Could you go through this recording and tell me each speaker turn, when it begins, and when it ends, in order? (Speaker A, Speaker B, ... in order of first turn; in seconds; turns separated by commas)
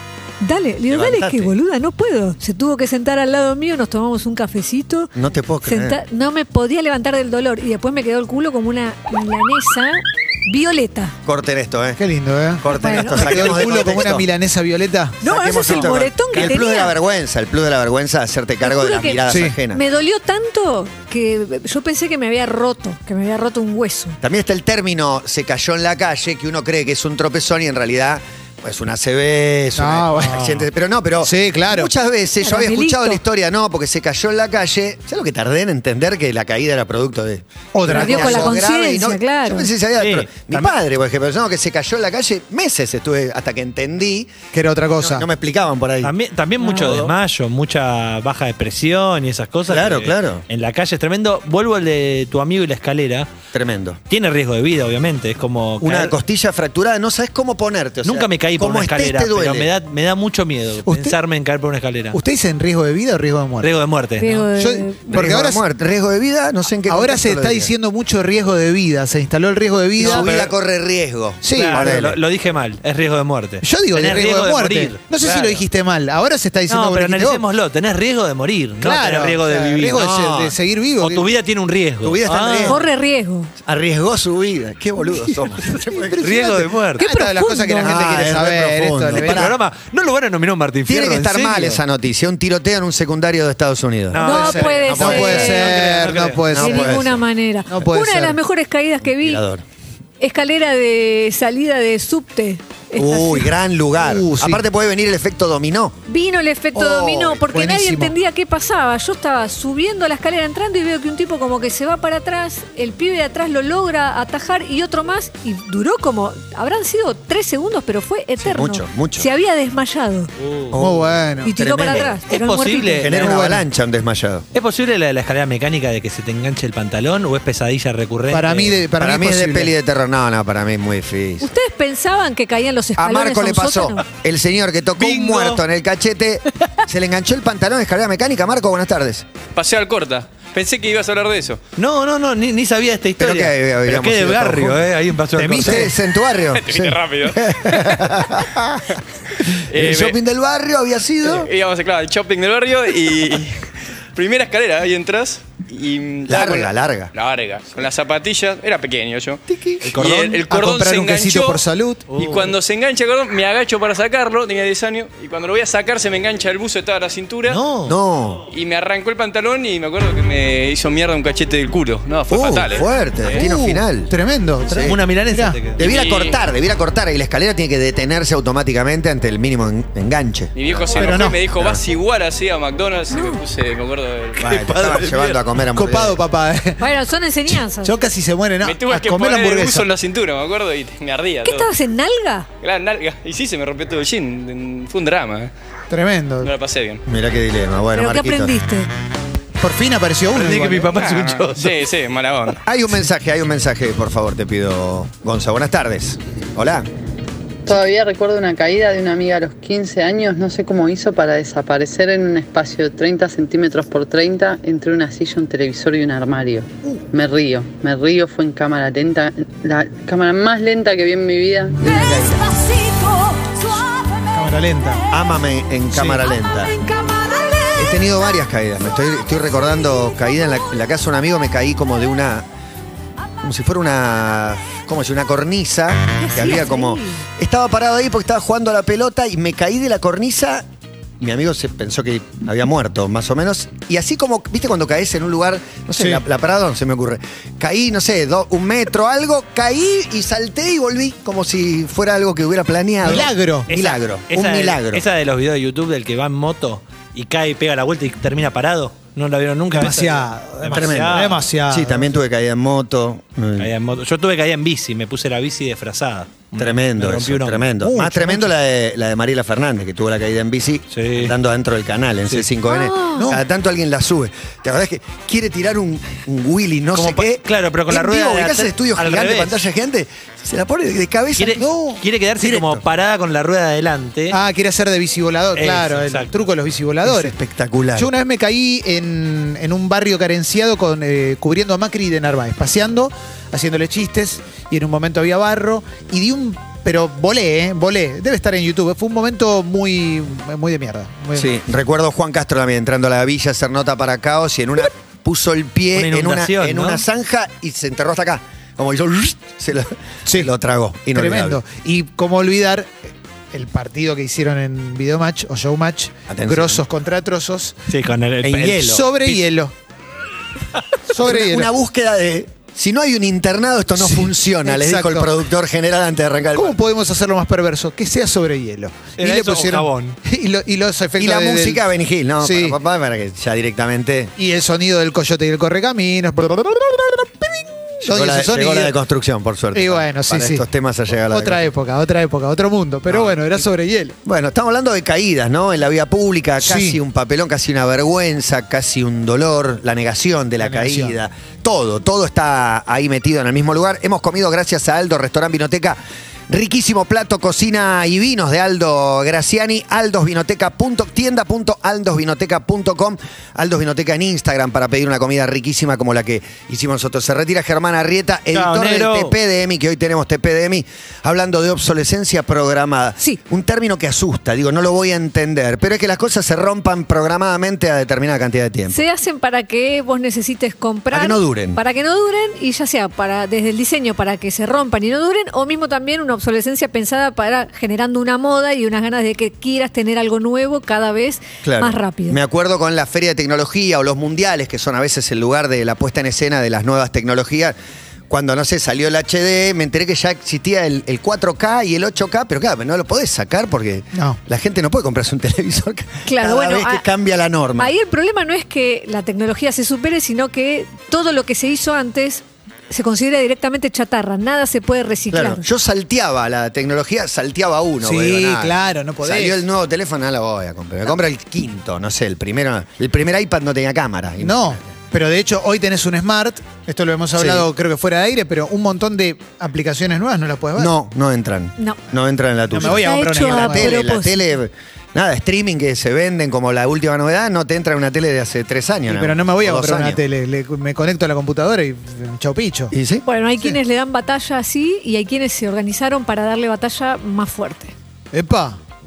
Speaker A: 0.4-5.1, Speaker B: 0.9-1.5, Speaker B: 5.2-6.0, Speaker A: 5.6-11.1, Speaker B: 11.2-12.0, Speaker C: 12.0-15.2, Speaker B: 12.6-14.3, Speaker A: 12.7-13.5, Speaker A: 15.2-16.9, Speaker B: 15.2-19.8, Speaker A: 18.6-24.2, Speaker C: 19.3-19.6, Speaker B: 24.2-44.3, Speaker C: 29.8-30.6, Speaker C: 31.2-31.9, Speaker A: 32.4-33.2, Speaker C: 37.7-38.6, Speaker A: 37.9-39.7, Speaker D: 40.0-40.7, Speaker C: 44.5-45.3, Speaker B: 45.0-46.1, Speaker D: 46.0-53.3, Speaker A: 46.6-47.0, Speaker B: 46.7-47.1, Speaker B: 49.7-50.4, Speaker B: 53.5-54.0, Speaker D: 54.1-56.1, Speaker B: 55.8-59.7, Speaker D: 58.0-62.2, Speaker C: 60.8-61.2, Speaker C: 62.1-63.7, Speaker D: 63.6-64.5, Speaker A: 64.2-65.0, Speaker C: 64.5-65.6, Speaker B: 65.1-67.7, Speaker C: 66.9-70.3, Speaker D: 70.0-70.5, Speaker B: 70.0-72.2, Speaker C: 71.4-72.0, Speaker D: 71.5-75.7, Speaker C: 73.6-77.4, Speaker D: 76.7-80.1, Speaker C: 78.8-81.3, Speaker B: 80.0-80.5, Speaker D: 81.0-82.8, Speaker B: 82.0-82.8, Speaker A: 82.6-83.5, Speaker B: 83.6-86.3, Speaker C: 85.9-89.5, Speaker D: 86.2-87.1, Speaker A: 87.0-88.1, Speaker B: 87.8-89.5, Speaker D: 89.2-91.8, Speaker B: 90.9-95.6, Speaker D: 94.1-96.6, Speaker A: 94.2-95.8, Speaker C: 94.3-97.0, Speaker B: 96.5-97.2, Speaker A: 96.5-99.5, Speaker C: 97.7-98.4, Speaker B: 99.0-99.6, Speaker A: 100.2-103.5, Speaker B: 103.0-106.0, Speaker C: 104.0-104.6, Speaker A: 106.1-120.3, Speaker B: 106.8-107.5, Speaker C: 107.5-108.1, Speaker B: 118.4-119.3, Speaker D: 120.4-120.8, Speaker B: 120.7-122.2, Speaker C: 120.8-121.6, Speaker A: 121.4-123.3, Speaker D: 122.3-123.3, Speaker B: 123.0-124.5, Speaker C: 123.1-123.7, Speaker D: 124.5-128.9, Speaker C: 128.3-129.7, Speaker B: 128.9-131.5, Speaker A: 131.4-134.0, Speaker B: 133.0-139.3, Speaker D: 135.0-135.6, Speaker E: 139.6-141.6, Speaker D: 141.8-145.9, Speaker B: 143.2-144.8, Speaker C: 145.4-145.9, Speaker B: 145.4-148.9, Speaker E: 146.4-149.0, Speaker E: 149.7-150.2, Speaker B: 149.7-151.5, Speaker E: 151.2-167.6, Speaker B: 156.3-157.1, Speaker B: 159.5-159.9, Speaker D: 159.8-160.5, Speaker C: 160.5-162.1, Speaker D: 162.1-162.6, Speaker D: 167.5-168.0, Speaker B: 167.9-168.4, Speaker E: 168.5-172.9, Speaker B: 172.3-174.1, Speaker D: 173.2-173.5, Speaker C: 173.2-175.6, Speaker B: 174.7-175.0, Speaker D: 174.7-176.1, Speaker B: 175.8-181.8, Speaker E: 175.8-176.4, Speaker E: 180.6-185.4, Speaker C: 180.9-181.4, Speaker A: 183.1-183.4, Speaker B: 184.4-186.2, Speaker C: 185.7-186.9, Speaker A: 186.8-187.9, Speaker C: 187.5-189.9, Speaker E: 188.6-191.7, Speaker A: 191.4-192.5, Speaker E: 192.6-195.5, Speaker C: 195.9-196.5, Speaker E: 196.4-197.0, Speaker B: 197.1-198.5, Speaker A: 197.9-198.9, Speaker C: 199.6-200.9, Speaker D: 200.3-201.8, Speaker E: 200.9-202.6, Speaker B: 202.7-206.9, Speaker F: 207.7-208.1, Speaker F: 208.9-211.4, Speaker F: 212.4-212.7, Speaker F: 217.1-217.7, Speaker F: 218.9-220.2, Speaker F: 220.9-221.7, Speaker A: 221.8-224.3, Speaker C: 221.9-222.4, Speaker C: 224.3-225.0, Speaker B: 225.1-226.8, Speaker C: 225.9-226.2, Speaker A: 226.3-228.4, Speaker B: 227.8-232.5, Speaker B: 233.4-240.7, Speaker A: 236.2-237.2, Speaker B: 241.2-255.0, Speaker C: 246.0-246.2, Speaker C: 253.0-253.7, Speaker D: 253.7-261.4, Speaker C: 259.7-262.1, Speaker B: 260.7-263.7, Speaker D: 263.6-267.7, Speaker B: 266.6-281.7, Speaker C: 267.8-268.5, Speaker D: 270.9-271.4, Speaker A: 272.7-273.3, Speaker C: 273.1-273.4, Speaker D: 276.9-279.6, Speaker D: 281.4-284.4, Speaker C: 281.6-282.0, Speaker B: 282.4-282.8, Speaker C: 284.3-287.3, Speaker D: 285.6-286.4, Speaker B: 287.0-288.1, Speaker C: 288.0-301.5, Speaker B: 301.4-311.6, Speaker D: 305.9-307.1, Speaker C: 311.1-312.9, Speaker C: 313.5-317.8, Speaker B: 316.3-316.8, Speaker D: 317.9-319.5, Speaker B: 318.4-319.0, Speaker C: 318.8-319.7, Speaker C: 321.1-321.7, Speaker B: 321.2-326.8, Speaker C: 323.9-325.4, Speaker C: 326.5-331.8, Speaker D: 329.2-330.2, Speaker B: 331.2-334.3, Speaker C: 332.4-332.8, Speaker C: 334.4-339.0, Speaker B: 338.0-341.7, Speaker C: 339.7-344.2, Speaker B: 343.1-343.6, Speaker B: 344.2-379.0, Speaker C: 346.6-347.0, Speaker C: 350.6-351.2, Speaker D: 368.5-369.4, Speaker A: 378.9-392.4, Speaker B: 381.1-381.8, Speaker B: 391.6-397.8, Speaker B: 398.3-407.9, Speaker A: 406.3-407.1, Speaker A: 407.8-415.6, Speaker B: 415.3-424.9, Speaker C: 418.0-419.6, Speaker C: 424.4-430.9, Speaker B: 427.4-427.7, Speaker B: 430.8-440.2, Speaker C: 432.7-434.0, Speaker A: 432.8-434.4, Speaker C: 439.1-442.9, Speaker B: 442.9-443.2, Speaker A: 443.2-447.9, Speaker C: 448.3-448.8